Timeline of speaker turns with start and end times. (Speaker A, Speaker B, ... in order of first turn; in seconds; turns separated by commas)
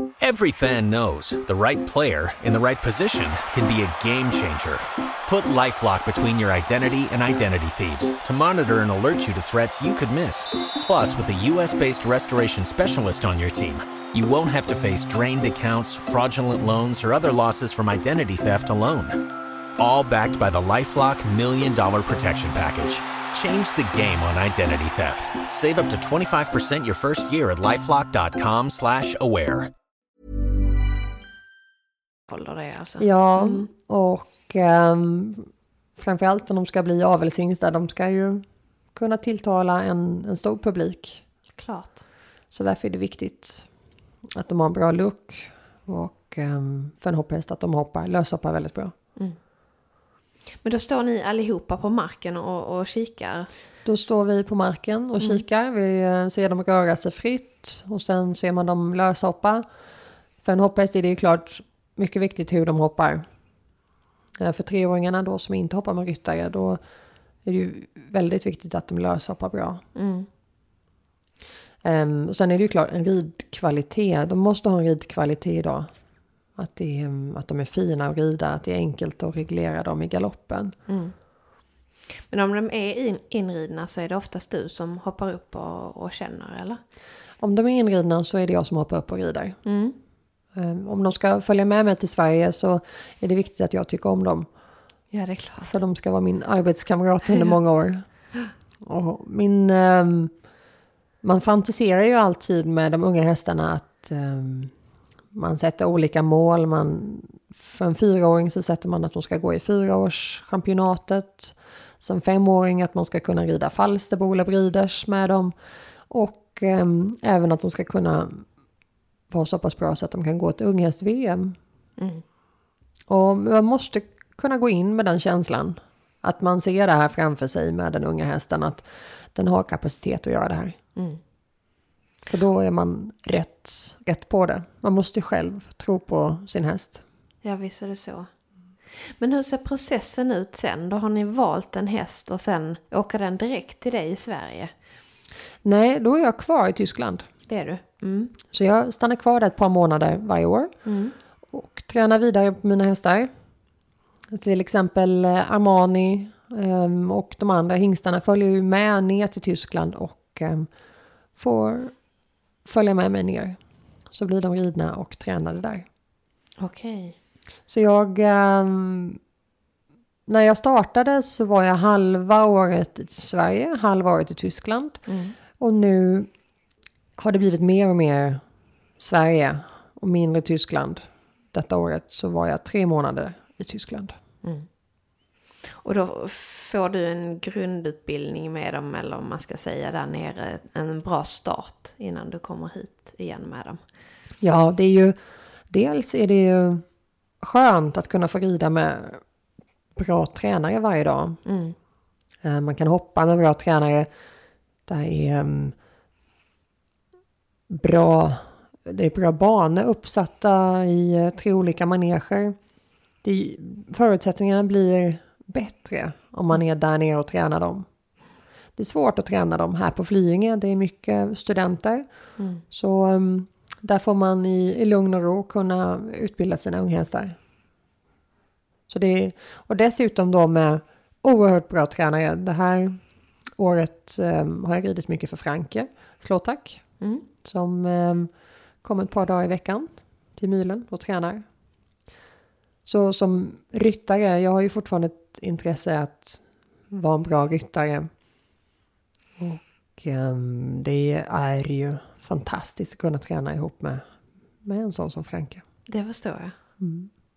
Speaker A: 0.2-29.7, Speaker B: 32.3-33.7, Speaker C: 33.0-41.2, Speaker B: 41.5-42.0, Speaker C: 42.5-43.7, Speaker C: 44.3-48.9, Speaker B: 50.6-53.5, Speaker C: 53.8-59.6, Speaker C: 60.4-63.2, Speaker C: 64.4-66.8, Speaker C: 67.4-69.8, Speaker B: 69.9-70.3, Speaker C: 71.8-75.9, Speaker C: 76.5-80.8, Speaker B: 80.9-81.1, Speaker B: 82.3-86.8, Speaker C: 87.4-89.6, Speaker B: 89.6-90.0, Speaker C: 90.5-94.5, Speaker B: 95.1-95.7, Speaker C: 95.6-98.3, Speaker C: 98.8-100.4, Speaker C: 101.2-104.7, Speaker C: 105.3-115.5, Speaker C: 116.1-118.5, Speaker C: 119.3-121.6, Speaker B: 122.0-122.2, Speaker C: 123.1-130.8, Speaker C: 132.3-137.0, Speaker B: 137.4-138.3, Speaker B: 139.2-144.7, Speaker C: 145.6-147.3, Speaker B: 147.5-148.3, Speaker C: 148.5-150.7, Speaker B: 150.8-151.1, Speaker C: 151.5-153.3, Speaker C: 154.3-160.7, Speaker C: 161.3-161.9, Speaker C: 162.6-163.6, Speaker C: 164.1-165.8, Speaker B: 166.6-167.2, Speaker C: 167.7-169.2, Speaker C: 170.3-176.3, Speaker B: 175.1-175.3, Speaker C: 177.2-178.4, Speaker C: 179.0-184.2, Speaker B: 185.8-193.8, Speaker C: 194.4-195.2, Speaker C: 195.7-196.8, Speaker C: 197.4-199.2, Speaker C: 199.9-201.4, Speaker B: 201.4-201.8, Speaker C: 202.4-204.1, Speaker C: 204.8-205.7, Speaker C: 207.7-212.6, Speaker C: 213.2-217.9, Speaker C: 218.8-222.1, Speaker B: 222.4-222.6, Speaker C: 222.7-227.3, Speaker C: 228.9-233.0, Speaker C: 233.5-241.4, Speaker B: 237.0-237.2, Speaker C: 242.8-248.1, Speaker C: 249.4-254.0, Speaker C: 254.6-255.6, Speaker B: 255.9-256.5, Speaker C: 256.8-257.1